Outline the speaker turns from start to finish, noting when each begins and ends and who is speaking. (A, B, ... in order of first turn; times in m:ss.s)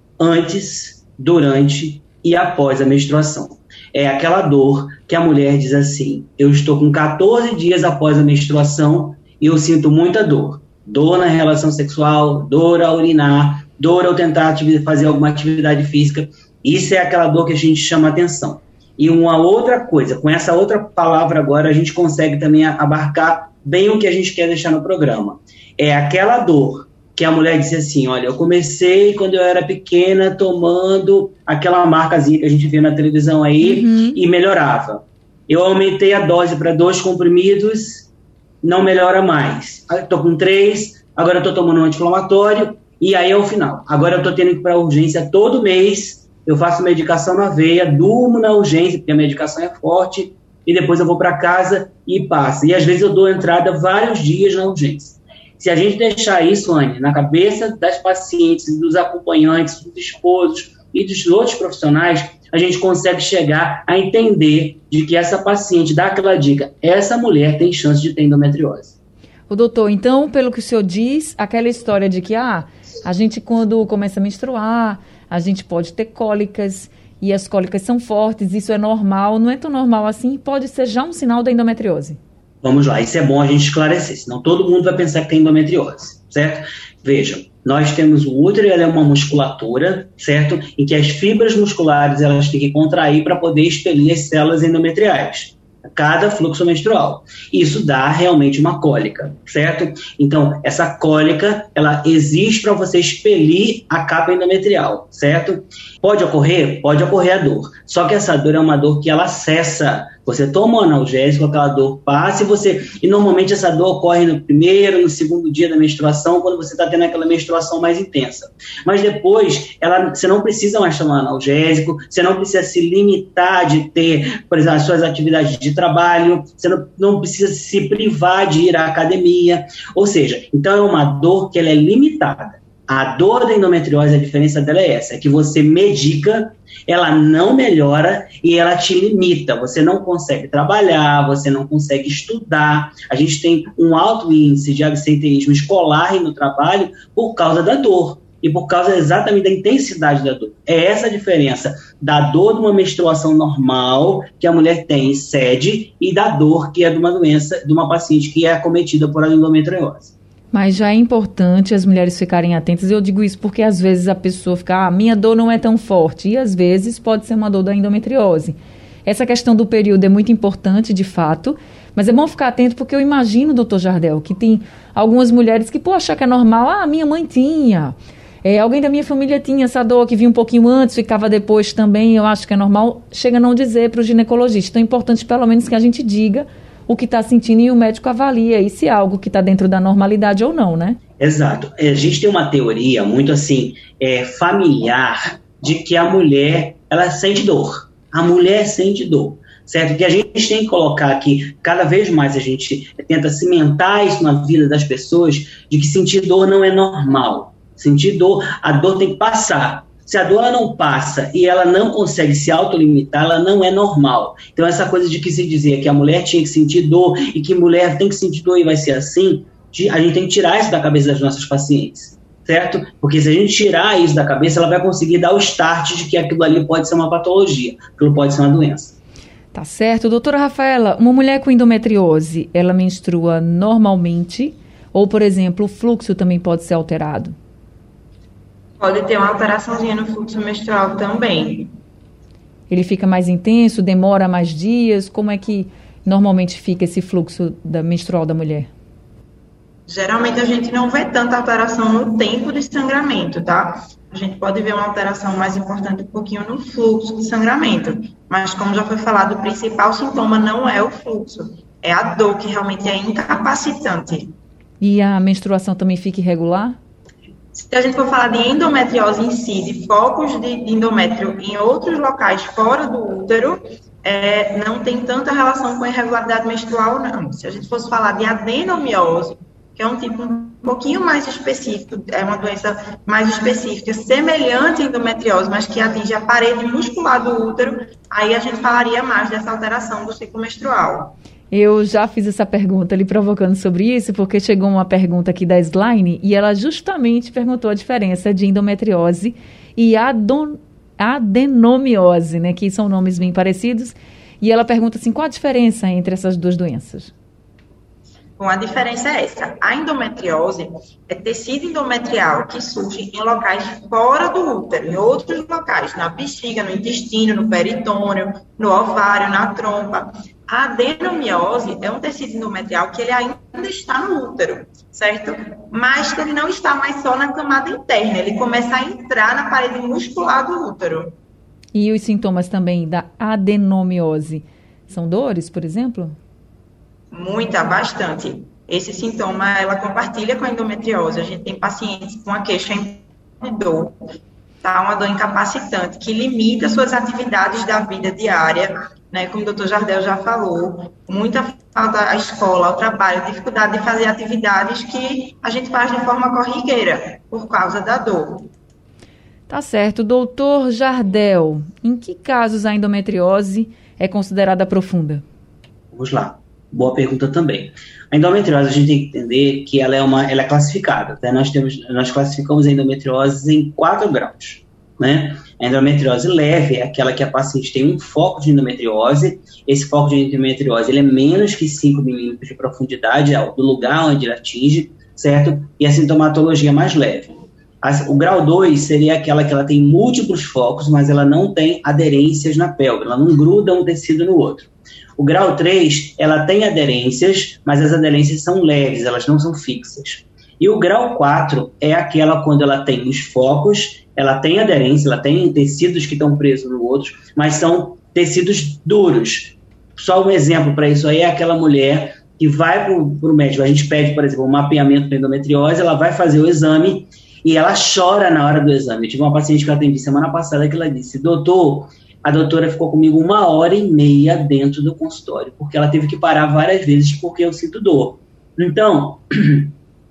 0:00.2-0:38.1 A
0:33.6-0:34.2 B
0:38.6-1:09.0 A
1:09.5-1:22.2 B
1:22.6-2:40.1 A
2:40.5-3:11.0 B
3:11.2-3:49.0 A
3:49.5-3:57.3 B
3:58.8-4:01.7 C
4:02.7-4:08.7 B
4:09.9-4:24.3 C
4:24.8-4:26.8 B
4:27.5-4:51.2 C
4:51.5-5:07.1 B
5:08.4-5:31.1 C
5:31.7-5:36.2 B
5:37.1-5:44.0 C
5:44.6-5:58.5 C
5:59.5-6:05.2 B
6:05.9-7:09.7 A